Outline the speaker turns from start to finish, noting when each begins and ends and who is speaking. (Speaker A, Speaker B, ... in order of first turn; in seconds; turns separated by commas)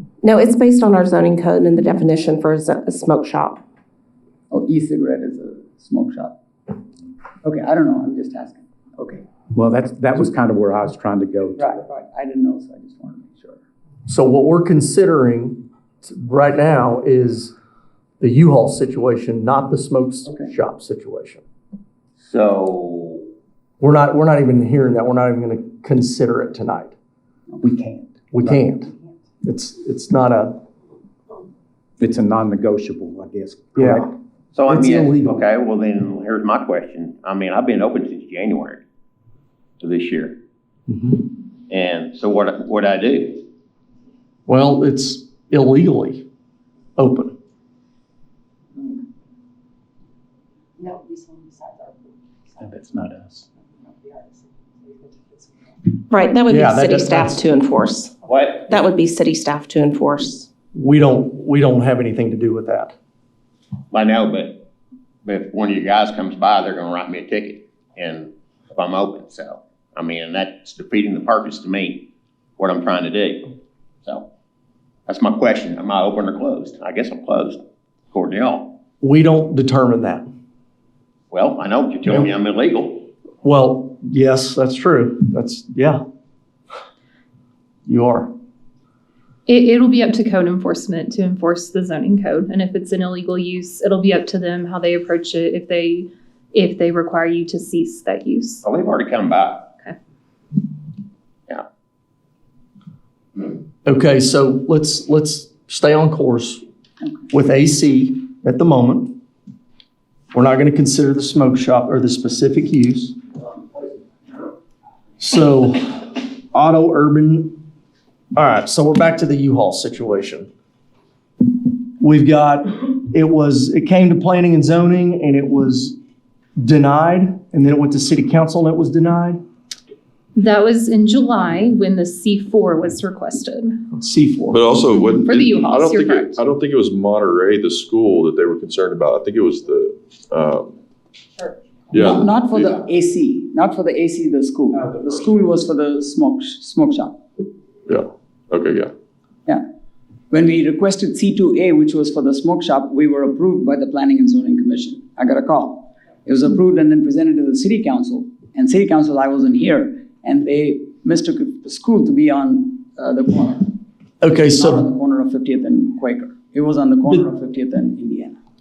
Speaker A: 0.2-3.6, Speaker B: 4.5-6.3, Speaker B: 7.4-9.2, Speaker C: 9.5-11.7, Speaker B: 11.6-13.6, Speaker D: 14.1-17.5, Speaker D: 18.2-21.4, Speaker E: 22.2-23.2, Speaker D: 23.8-26.9, Speaker C: 27.6-28.6, Speaker D: 28.3-28.9, Speaker D: 29.4-30.6, Speaker C: 32.0-34.1, Speaker D: 33.8-34.1, Speaker E: 34.5-38.8, Speaker D: 34.7-35.4, Speaker E: 39.8-40.4, Speaker D: 40.9-41.2, Speaker E: 41.7-43.4, Speaker D: 44.5-46.2, Speaker D: 47.0-47.3, Speaker F: 50.8-52.1, Speaker C: 52.6-53.4, Speaker F: 53.6-56.0, Speaker A: 56.1-58.1, Speaker D: 56.5-57.4, Speaker E: 58.2-58.8, Speaker A: 58.7-60.5, Speaker D: 60.7-62.9, Speaker E: 63.9-64.6, Speaker E: 65.2-72.1, Speaker E: 72.6-73.5, Speaker E: 75.1-77.6, Speaker E: 78.1-78.7, Speaker D: 79.0-80.3, Speaker E: 81.3-83.1, Speaker D: 83.4-86.0, Speaker D: 87.8-88.3, Speaker G: 89.5-98.7, Speaker E: 98.6-99.7, Speaker D: 103.8-106.6, Speaker D: 107.3-109.1, Speaker D: 110.3-113.2, Speaker D: 115.2-117.6, Speaker D: 118.3-120.5, Speaker D: 122.0-126.0, Speaker D: 126.6-129.4, Speaker G: 130.3-133.8, Speaker D: 133.9-134.7, Speaker H: 134.5-140.8, Speaker G: 134.8-136.4, Speaker H: 141.9-142.3, Speaker B: 141.9-147.2, Speaker H: 147.9-148.9, Speaker B: 150.3-163.7, Speaker D: 164.2-164.8, Speaker B: 164.3-168.4